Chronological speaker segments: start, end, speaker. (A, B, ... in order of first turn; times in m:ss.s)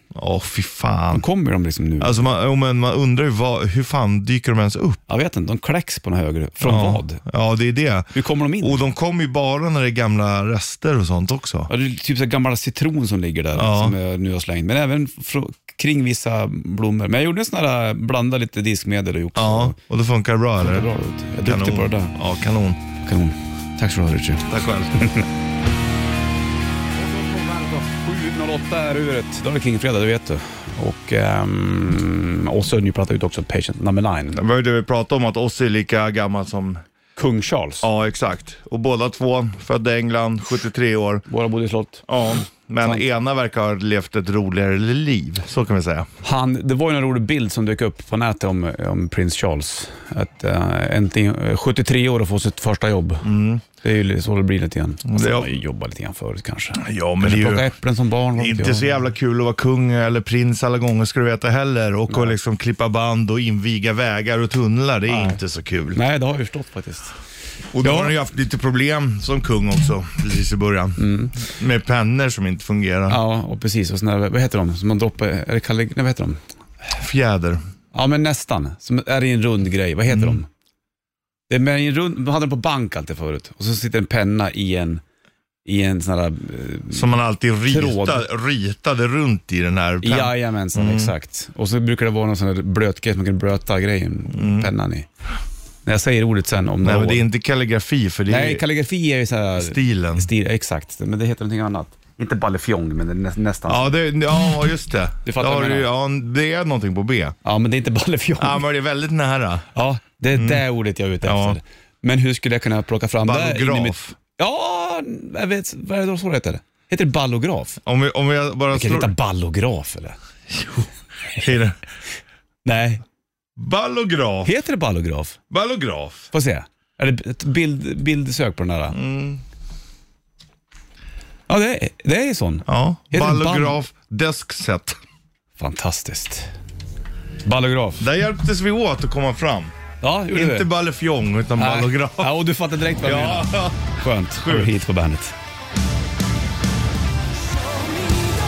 0:00.1-0:01.2 A
0:01.1-0:02.2 B
0:02.0-0:05.0 A
0:05.1-0:07.2 B
0:06.6-0:11.7 A
0:08.1-0:08.8 B
0:11.7-0:19.8 B
0:13.5-0:14.0 A
0:19.4-0:20.9 A
0:20.6-0:22.1 B
0:21.4-0:22.8 A
0:23.0-0:24.5 B
0:24.5-0:25.0 A
0:27.0-0:34.4 B
0:34.3-0:36.8 A
0:37.2-0:37.9 B
0:37.8-0:41.2 A
0:41.3-0:42.0 B
0:42.1-0:46.1 A
0:46.2-0:53.3 B
0:53.2-0:53.6 A
0:53.8-0:58.8 B
0:55.0-0:55.6 A
0:56.8-0:57.7 A
0:58.4-1:06.0 A
1:05.1-1:05.4 B
1:05.9-1:07.2 B
1:07.7-1:13.2 A
1:07.8-1:08.1 B
1:11.0-1:11.3 B
1:13.1-1:16.4 B
1:16.9-1:17.6 A
1:17.9-1:20.5 B
1:20.1-1:20.4 A
1:21.5-1:25.0 B
1:25.6-1:27.1 B
1:26.9-1:31.1 A
1:27.7-1:28.2 B
1:30.0-1:35.1 B
1:34.3-1:34.7 A
1:35.8-1:37.2 B
1:36.8-1:38.6 A
1:38.3-1:43.9 B
1:39.6-1:40.3 A
1:43.6-1:47.3 A
1:45.2-1:45.9 B
1:47.4-1:48.6 B
1:48.4-1:49.7 A
1:49.7-1:57.8 B
1:50.3-1:50.6 A
1:51.2-1:51.6 A
1:53.2-1:54.1 A
1:57.8-1:59.1 A
1:58.7-2:00.2 B
2:00.5-2:01.8 A
2:02.6-2:03.0 B
2:03.6-2:04.5 A
2:04.4-2:05.4 B
2:05.5-2:06.3 A
2:06.3-2:09.0 B
2:08.9-2:09.4 A
2:11.5-2:13.8 B
2:12.6-2:15.0 A
2:15.6-2:16.5 B
2:17.4-2:18.0 B
2:18.0-2:19.7 A
2:20.0-2:20.7 B
2:20.3-2:22.3 A
2:21.6-2:25.4 B
2:23.0-2:24.7 A